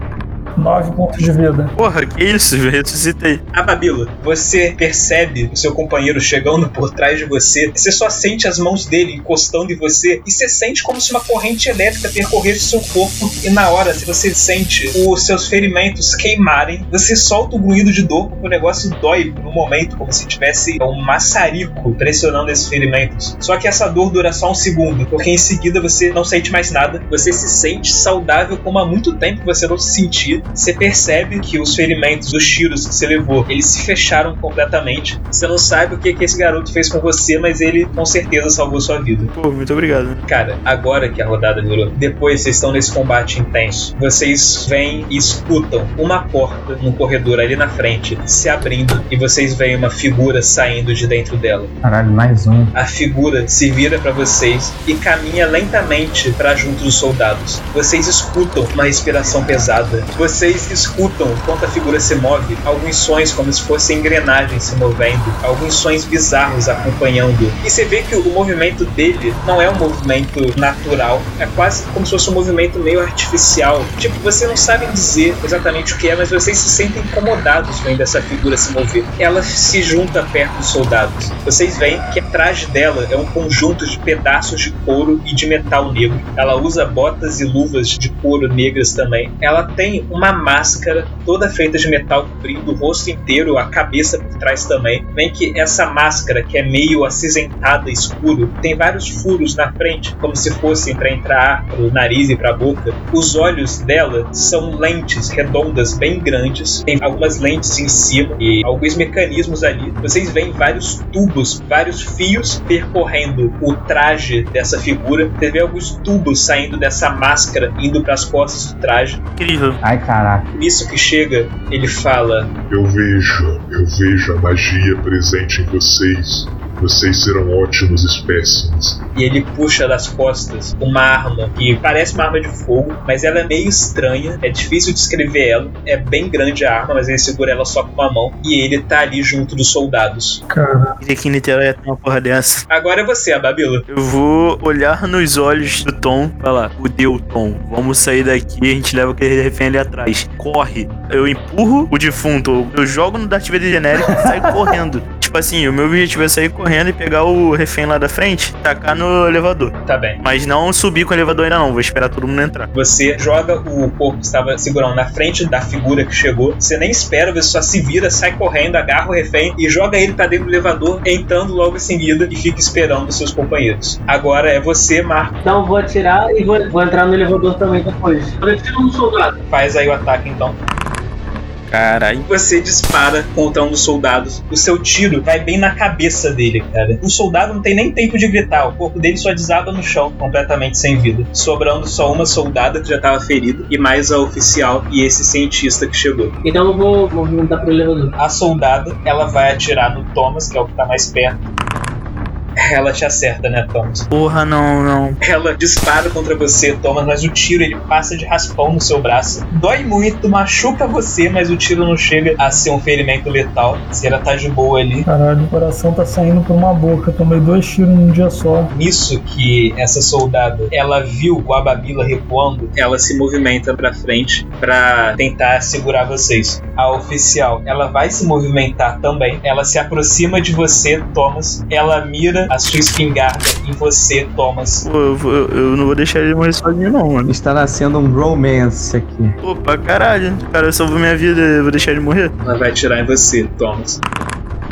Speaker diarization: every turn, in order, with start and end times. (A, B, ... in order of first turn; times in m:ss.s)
0:00.6-0:01.7 A
0:01.8-0:03.4 B
0:03.5-0:39.3 C
0:39.3-0:40.2 B
0:40.3-0:51.7 C
0:51.8-0:52.7 D
0:52.7-1:59.2 C
1:59.4-1:59.8 B
1:59.8-2:00.5 D
2:00.5-2:02.5 C
2:02.7-2:09.0 E
2:09.1-2:20.4 C
2:20.5-2:21.0 A
2:21.0-2:22.6 B
2:22.7-2:23.8 C
2:23.9-2:42.7 B
2:39.8-2:40.2 C
2:42.7-2:55.4 C
2:55.4-2:59.3 F
2:59.5-3:00.6 C
3:01.7-3:02.3 B
3:02.3-3:16.3 C
3:16.4-3:18.1 F
3:18.2-3:21.4 C
3:22.6-3:24.1 C
3:24.1-3:25.2 B
3:25.2-3:35.0 C
3:35.0-3:38.7 A
3:38.7-3:54.8 C
3:54.8-3:57.3 B
3:57.2-3:59.3 D
3:59.4-4:02.3 B
4:02.4-4:04.0 C